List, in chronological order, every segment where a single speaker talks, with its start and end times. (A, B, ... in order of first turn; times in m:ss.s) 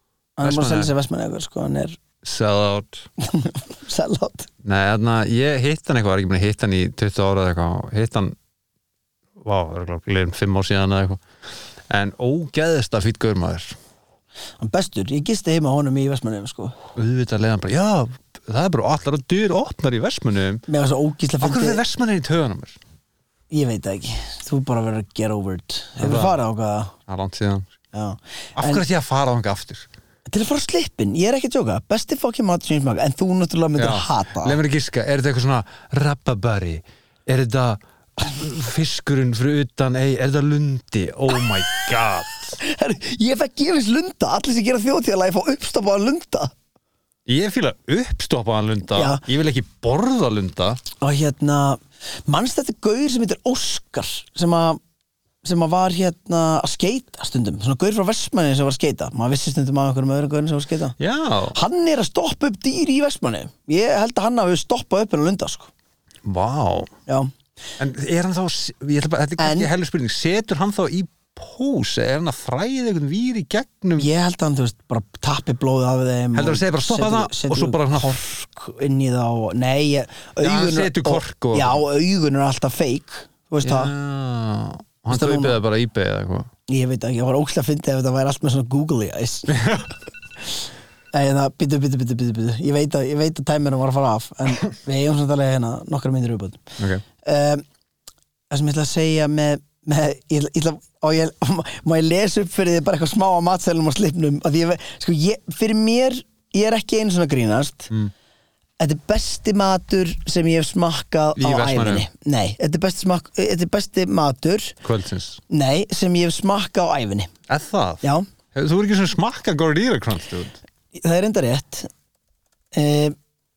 0:00.4-0:02.0 A
0:00.4-0:00.9 B
0:02.2-0:03.1 B
0:03.2-0:04.5 A
0:04.6-0:08.4 B
0:09.4-0:11.2 B
0:11.9-0:13.8 B
0:14.6-0:16.7 A
0:17.0-0:20.6 B
0:20.7-0:21.8 A
0:21.4-0:22.8 B
0:23.5-0:27.0 A
0:26.0-0:26.4 B
0:27.1-0:27.7 B
0:27.9-0:28.8 A
0:28.6-0:29.9 B
0:30.3-0:34.6 A
0:33.8-0:42.6 B
0:42.6-0:46.5 A
0:47.3-0:50.8 B
0:48.9-0:49.2 A
0:51.0-0:54.8 A
0:55.4-1:01.0 A
1:01.0-1:01.6 B
1:01.5-1:05.7 A
1:06.2-1:06.9 B
1:07.8-1:14.1 B
1:09.4-1:09.7 A
1:14.0-1:23.9 A
1:16.3-1:18.2 B
1:20.4-1:21.8 B
1:23.6-1:26.5 B
1:25.1-1:25.6 A
1:26.7-1:29.6 A
1:29.5-1:29.9 B
1:31.1-1:36.7 A
1:37.2-1:37.6 A
1:38.5-1:47.9 A
1:48.8-1:54.8 A
1:51.4-1:52.1 B
1:54.8-1:55.4 B
1:55.5-1:57.3 A
1:57.5-1:58.0 B
1:58.5-2:00.6 B
2:00.9-2:01.9 A
2:02.7-2:03.1 A